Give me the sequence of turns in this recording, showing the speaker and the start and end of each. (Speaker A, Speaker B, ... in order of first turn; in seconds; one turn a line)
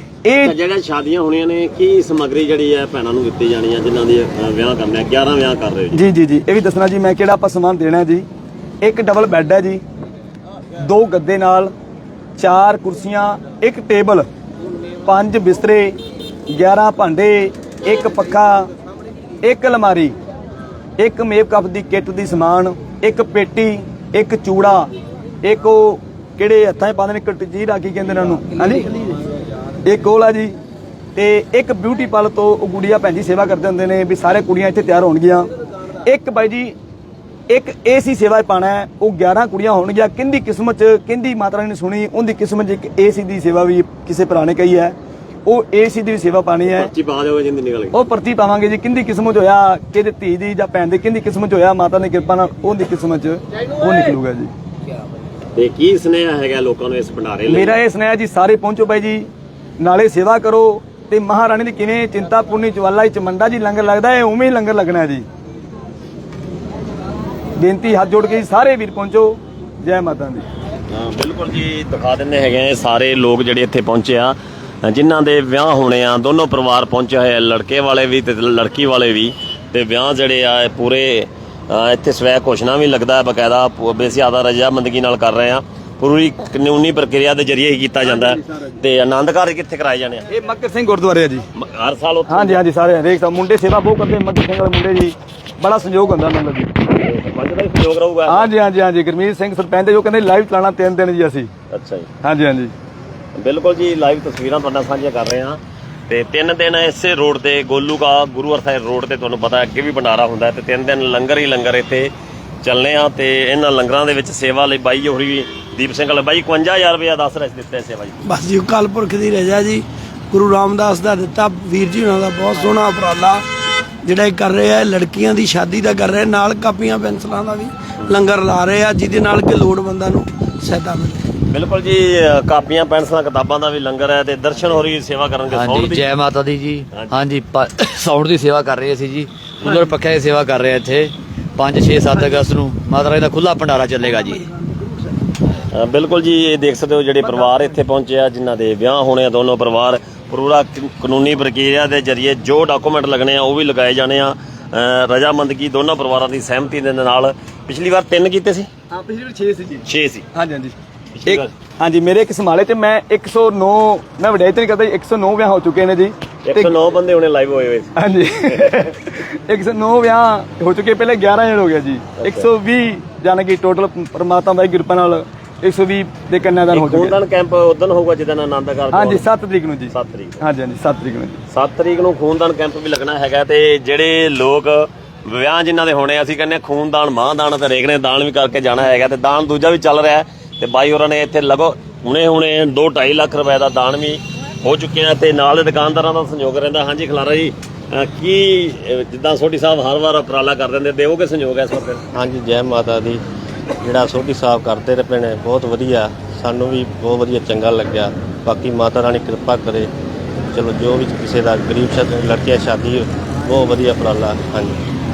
Speaker A: 0.2-0.5
Speaker B: 0.4-6.0
Speaker A: 5.9-8.2
Speaker A: 8.8-9.8
Speaker A: 10.8-11.7
Speaker A: 12.4-14.2
Speaker A: 15.1-16.0
Speaker A: 16.5-18.7
Speaker A: 19.4-20.1
Speaker A: 21.0-24.9
Speaker A: 25.4-28.9
Speaker A: 29.9-30.5
Speaker A: 31.1-35.5
Speaker A: 36.0-36.7
Speaker A: 37.5-44.9
Speaker A: 45.5-46.9
Speaker B: 46.7-48.0
Speaker A: 47.9-54.5
Speaker B: 55.5-57.8
Speaker A: 57.5-65.2
Speaker A: 67.6-70.5
Speaker B: 70.9-90.2
Speaker A: 88.1-88.6
Speaker A: 90.3-91.4
Speaker B: 91.5-92.6
Speaker A: 92.3-96.7
Speaker B: 96.9-98.5
Speaker A: 98.3-101.5
Speaker B: 101.7-102.1
Speaker A: 102.2-102.7
Speaker B: 103.3-112.1
Speaker B: 112.6-118.2
Speaker C: 118.2-123.4
Speaker C: 124.0-131.2
Speaker B: 131.5-136.1
Speaker D: 135.5-144.4
Speaker B: 145.7-158.7
Speaker A: 158.9-160.7
Speaker B: 159.8-160.2
Speaker B: 161.2-161.5
Speaker A: 161.2-166.7
Speaker B: 166.4-167.9
Speaker A: 167.9-177.2
Speaker B: 172.2-172.4
Speaker B: 176.7-179.2
Speaker A: 178.9-181.4
Speaker B: 179.9-180.4
Speaker B: 181.5-202.0
Speaker E: 202.1-203.2
Speaker E: 203.8-209.9
Speaker E: 210.5-214.8